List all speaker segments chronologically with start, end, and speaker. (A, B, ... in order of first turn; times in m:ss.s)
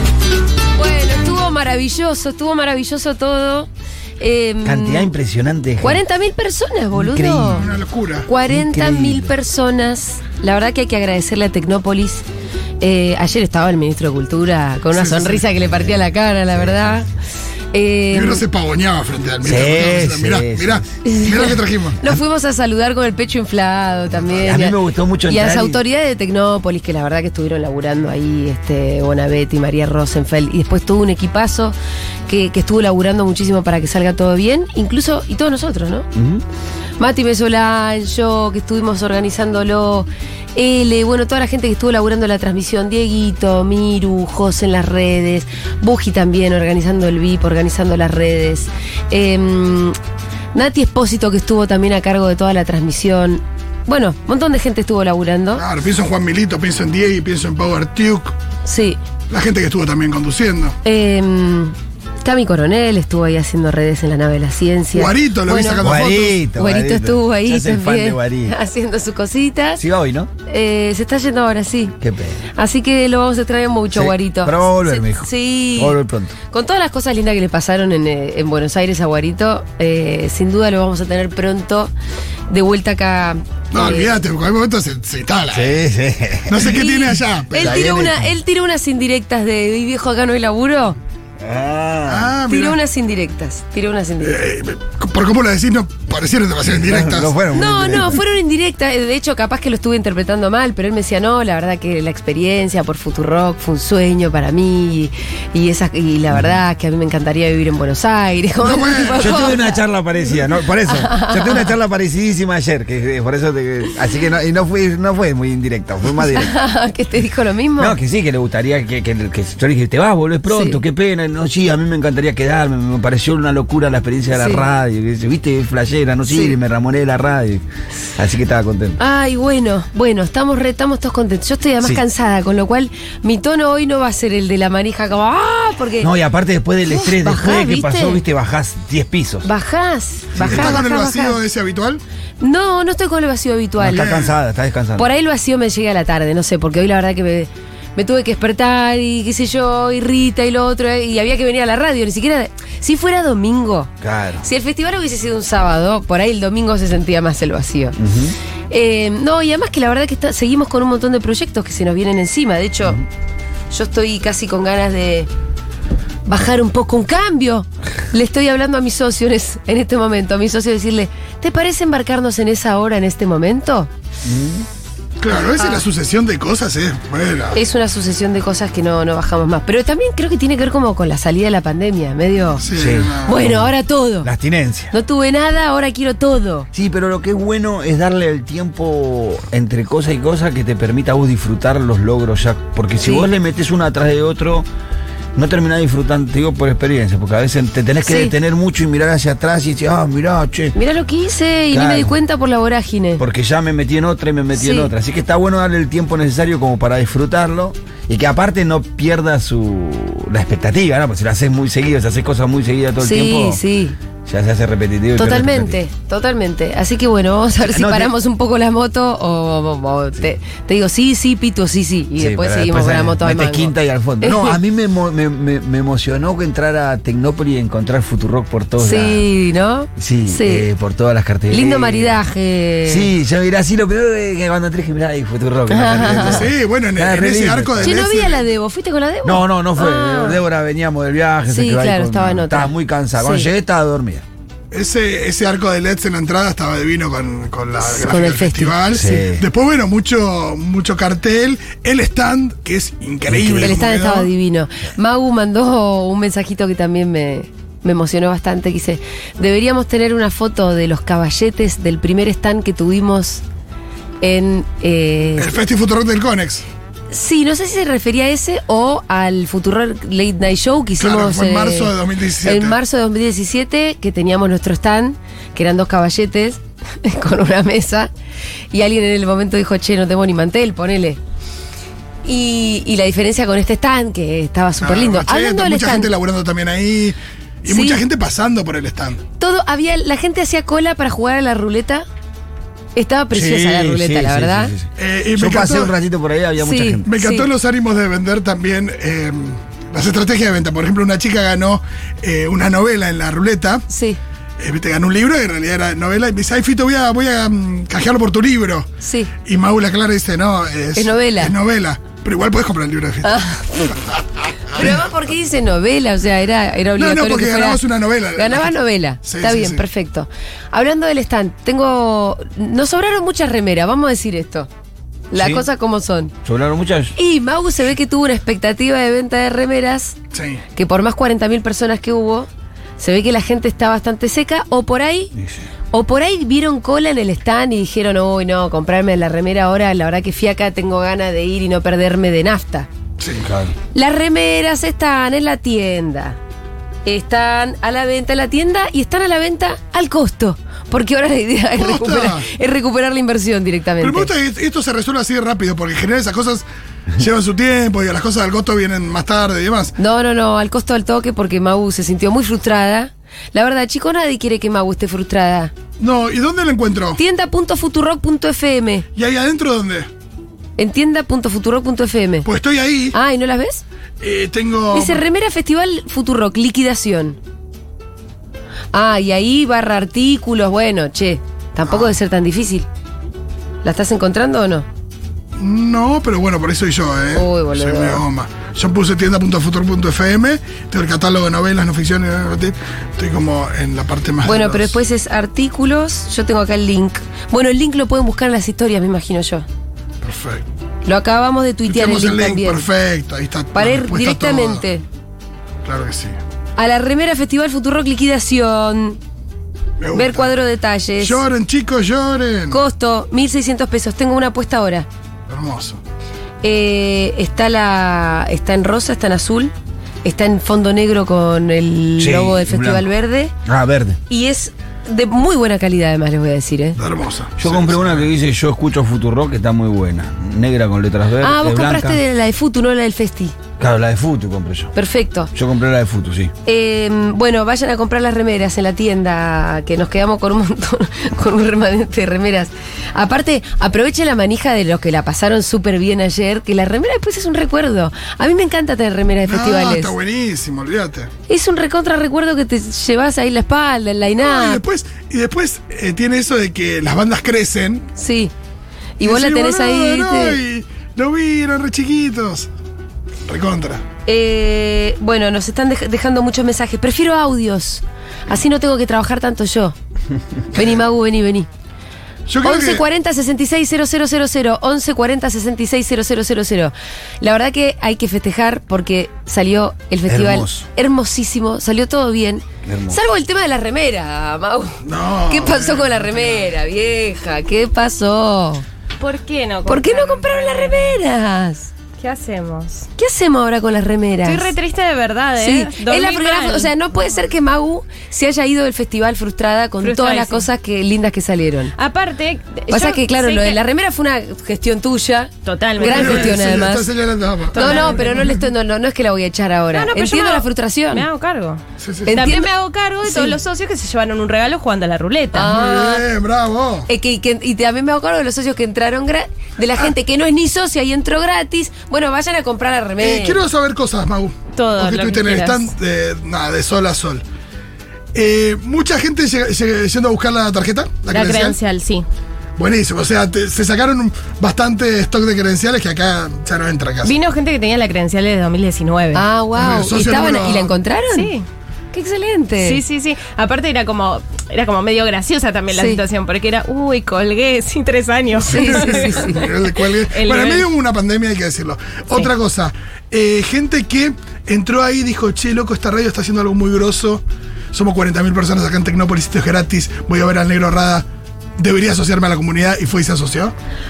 0:00.8-0:03.7 A
0:04.2-0:05.1 A
0:04.6-0:06.0 B
0:05.8-0:07.6 A
0:06.9-0:07.7 B
0:07.5-0:08.3 C
0:08.2-0:12.2 A
0:08.5-0:09.3 B
0:12.8-0:17.1 A
0:14.9-0:15.4 C
0:15.7-0:15.9 B
0:16.5-0:17.0 B
0:17.7-0:18.4 A
0:18.1-0:22.0 C
0:19.4-0:20.9 B
0:21.0-0:31.7 A
0:24.3-0:25.8 B
0:32.3-0:36.1 A
0:36.1-0:36.4 B
0:37.0-0:50.0 A
0:50.5-0:55.6 A
0:55.6-0:58.3 C
0:58.6-0:59.0 A
0:59.3-1:00.8 C
1:00.8-1:09.8 A
1:04.9-1:06.4 C
1:05.8-1:08.6 B
1:09.8-1:10.3 B
1:10.5-1:11.9 A
1:12.0-1:12.4 B
1:12.5-1:16.0 A
1:13.9-1:16.3 B
1:16.5-1:21.9 A
1:22.5-1:24.2 A
1:23.7-1:25.8 C
1:25.5-1:26.8 B
1:26.5-1:27.9 C
1:26.6-1:31.0 A
1:27.6-1:28.3 B
1:31.4-1:32.3 B
1:32.1-1:32.8 C
1:32.5-1:34.4 A
1:34.2-1:37.3 C
1:36.7-1:38.2 B
1:37.5-1:49.8 A
1:46.3-1:46.6 B
1:48.6-1:49.4 C
1:49.2-1:56.5 B
1:50.8-1:51.7 A
1:56.3-1:58.0 A
1:57.8-2:07.6 B
2:00.5-2:00.8 A
2:04.3-2:04.6 A
2:06.3-2:06.6 A
2:08.2-2:09.0 B
2:09.0-2:16.1 A
2:16.0-2:19.5 B
2:16.8-2:18.2 A
2:19.4-2:21.4 A
2:20.3-2:20.8 B
2:20.4-2:22.0 C
2:22.4-2:24.1 A
2:23.8-2:25.1 B
2:23.9-2:24.3 C
2:25.0-2:38.0 A
2:34.0-2:34.4 B
2:38.0-2:38.3 B
2:38.7-2:43.0 A
2:43.7-2:45.3 A
2:46.3-2:53.9 A
2:54.2-2:54.6 B
2:55.2-2:57.6 C
2:55.6-2:55.8 A
2:57.5-3:02.6 A
3:02.6-3:03.4 C
3:02.7-3:04.9 B
3:03.3-3:04.3 A
3:04.9-3:06.7 A
3:06.7-3:14.6 B
3:13.0-3:13.3 A
3:15.4-3:20.8 B
3:18.0-3:18.3 A
3:20.7-3:23.2 A
3:21.7-3:22.1 B
3:23.2-3:33.6 B
3:24.5-3:24.9 A
3:33.0-3:34.0 A
3:34.2-3:35.8 B
3:35.2-3:44.6 A
3:37.6-3:38.1 B
3:42.2-3:49.2 B
3:48.8-3:50.6 A
3:50.0-3:52.2 B
3:51.5-3:53.1 A
3:52.9-3:58.1 B
3:55.7-3:56.5 A
3:56.2-3:58.4 C
3:57.8-4:00.4 A
3:59.2-4:04.2 B
4:01.5-4:03.5 A
4:04.7-4:14.3 C
4:07.8-4:08.8 A
4:08.9-4:09.4 B
4:13.3-4:13.8 B
4:13.6-4:23.4 A
4:24.2-4:25.5 A
4:25.4-4:26.6 C
4:27.1-4:31.9 A
4:31.0-4:32.8 C
4:32.4-4:38.1 A
4:38.7-4:41.2 A
4:42.2-4:46.1 A
4:44.8-4:49.2 C
4:47.7-4:48.0 A
4:49.4-4:52.0 A
4:52.9-4:54.7 A
4:53.3-4:57.1 B
4:55.0-4:55.9 C
4:56.6-4:57.5 A
4:57.0-5:03.8 C
5:03.9-5:04.2 A
5:04.6-5:08.9 C
5:09.0-5:09.3 A
5:09.4-5:13.4 C
5:10.9-5:11.5 A
5:13.2-5:14.0 A
5:14.7-5:15.0 C
5:14.7-5:17.8 A
5:17.0-5:19.8 C
5:18.3-5:24.7 A
5:25.3-5:26.3 A
5:25.3-5:25.6 B
5:26.4-5:27.1 B
5:27.2-5:30.2 A
5:30.3-5:30.6 C
5:30.7-5:32.5 A
5:33.0-5:35.3 A
5:35.4-5:35.6 B
5:35.9-5:42.9 A
5:43.2-5:43.4 C
5:43.4-5:43.7 B
5:43.9-5:46.4 A
5:47.0-5:54.3 A
5:51.7-5:52.5 C
5:54.0-5:56.6 C
5:57.1-5:59.9 C
6:00.0-6:05.7 A
6:06.0-6:07.2 C
6:07.2-6:09.1 A
6:09.1-6:10.1 C
6:10.8-6:12.5 A
6:12.4-6:13.2 C
6:13.1-6:13.8 A
6:14.2-6:15.2 C
6:14.9-6:17.4 A
6:18.9-6:22.9 A
6:21.9-6:22.1 C
6:23.8-6:24.8 A
6:25.6-6:34.9 C
6:27.3-6:28.2 A
6:34.4-6:39.6 A
6:40.2-6:40.6 C
6:41.0-6:42.8 A
6:41.9-6:44.8 C
6:43.7-6:45.0 A
6:45.8-6:46.4 C
6:46.8-6:49.2 A
6:50.0-6:50.5 C
6:50.1-6:51.4 A
6:51.2-6:52.8 C
6:52.7-6:55.1 A
6:55.5-6:56.0 C
6:56.6-6:59.7 A
7:00.2-7:03.5 A
7:02.2-7:03.1 B
7:03.6-7:04.2 B
7:04.3-7:07.0 A
7:07.0-7:08.2 C
7:07.6-7:12.2 B
7:11.4-7:13.5 A
7:13.8-7:14.9 B
7:14.9-7:15.5 A
7:15.5-7:16.5 B
7:16.6-7:30.1 A
7:29.5-7:31.3 C
7:31.5-7:34.8 A
7:34.4-7:38.1 C
7:38.2-7:38.5 A
7:39.2-7:40.6 A
7:39.2-7:42.7 C
7:43.5-7:44.0 C
7:44.2-7:49.9 A
7:50.7-7:51.7 A
7:52.5-7:53.0 C
7:52.6-8:08.8 A
8:00.3-8:00.8 B
8:02.8-8:03.2 B
8:05.0-8:06.7 C
8:09.2-8:11.2 D
8:09.8-8:11.9 A
8:12.2-8:13.1 D
8:13.2-8:14.7 A
8:14.4-8:16.9 D
8:15.6-8:21.9 A
8:20.0-8:20.6 D
8:22.0-8:23.8 D
8:22.9-8:27.1 A
8:25.6-8:26.7 D
8:26.0-8:28.5 C
8:27.7-8:28.6 D
8:27.7-8:31.2 A
8:29.9-8:35.8 D
8:32.0-8:32.4 C
8:32.3-8:32.7 A
8:33.2-8:33.6 A
8:35.5-8:36.2 A
8:35.6-8:37.1 C
8:37.1-8:43.6 A
8:43.2-8:47.4 C
8:44.8-8:45.9 D
8:48.3-8:51.8 C
8:51.3-8:52.2 D
8:52.8-8:57.3 C
8:57.2-8:59.4 D
8:59.3-9:01.5 A
8:59.7-9:00.9 C
9:01.3-9:01.6 D
9:02.1-9:03.0 A
9:02.8-9:10.9 D
9:05.9-9:06.2 A
9:08.6-9:21.2 C
9:08.7-9:09.7 A
9:21.8-9:23.7 C